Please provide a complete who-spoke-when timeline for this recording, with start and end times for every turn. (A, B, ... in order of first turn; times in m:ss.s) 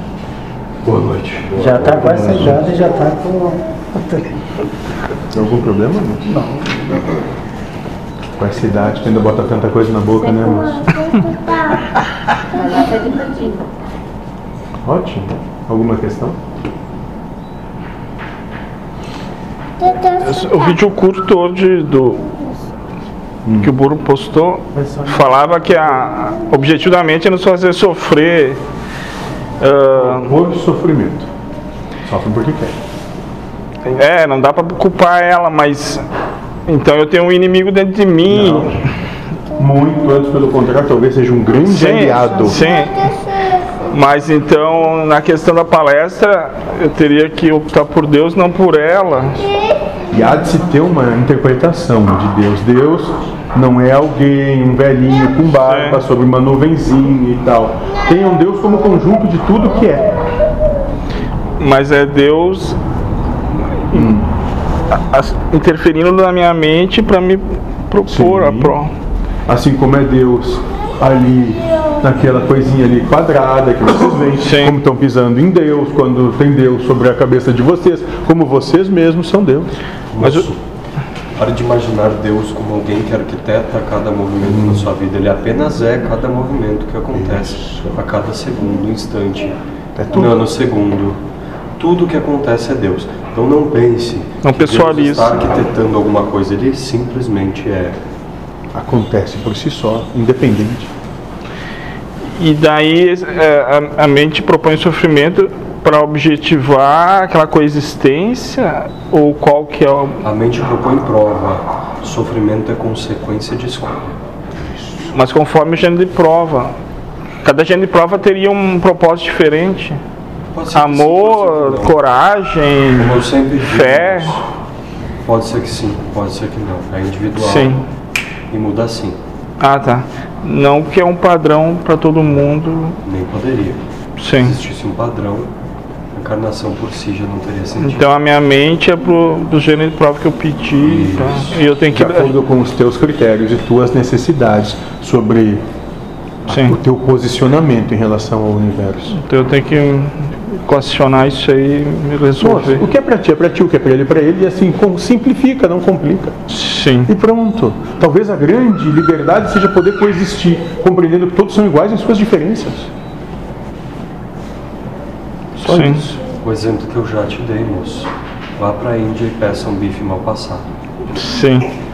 0:00.8-0:02.7 A
0:01.6-0:04.3 B
0:01.7-0:02.6 C
0:05.3-0:06.4 C
0:08.4-0:10.9 C
0:14.8-0:16.4 C
0:20.0-0:22.3 D
0:23.4-0:23.7 C
0:23.6-0:28.6 D
0:29.6-0:30.4 D
0:29.9-0:31.3 C
0:32.0-0:32.8 C
0:33.9-0:36.0 D
0:36.7-0:38.9 D
0:38.3-0:38.8 C
0:39.6-0:42.6 C
0:41.7-0:43.2 D
0:43.9-0:49.6 D
0:50.1-1:00.1 C
0:55.6-0:56.0 D
1:01.6-1:02.8 D
1:03.7-1:04.1 D
1:03.9-1:04.3 C
1:04.9-1:08.9 D
1:08.1-1:08.8 C
1:09.5-1:19.7 C
1:14.4-1:14.8 D
1:20.1-1:20.6 A
1:20.2-1:20.5 D
1:21.4-1:29.6 A
1:24.4-1:24.9 C
1:27.1-1:27.9 C
1:30.0-1:30.5 C
1:30.1-1:31.2 A
1:31.8-1:38.0 A
1:34.4-1:35.4 D
1:38.7-1:40.9 C
1:42.3-1:50.2 D
1:50.2-1:54.2 A
1:55.1-1:56.7 D
1:57.4-2:00.0 D
2:00.5-2:02.0 A
2:00.7-2:04.4 D
2:03.0-2:04.5 A
2:05.2-2:07.8 A
2:07.4-2:07.8 D
2:08.5-2:09.2 A
2:09.6-2:13.0 D
2:13.0-2:15.5 A
2:14.2-2:14.6 D
2:16.1-2:18.1 A
2:17.8-2:22.3 D
2:20.8-2:21.6 A
2:21.9-2:25.6 C
2:26.5-2:29.2 C
2:26.5-2:26.8 D
2:29.1-2:32.8 D
2:32.4-2:36.4 C
2:36.5-2:37.1 D
2:37.0-2:42.9 C
2:45.6-2:46.2 C
2:45.6-2:46.1 D
2:46.2-2:50.6 A
2:51.1-2:51.7 D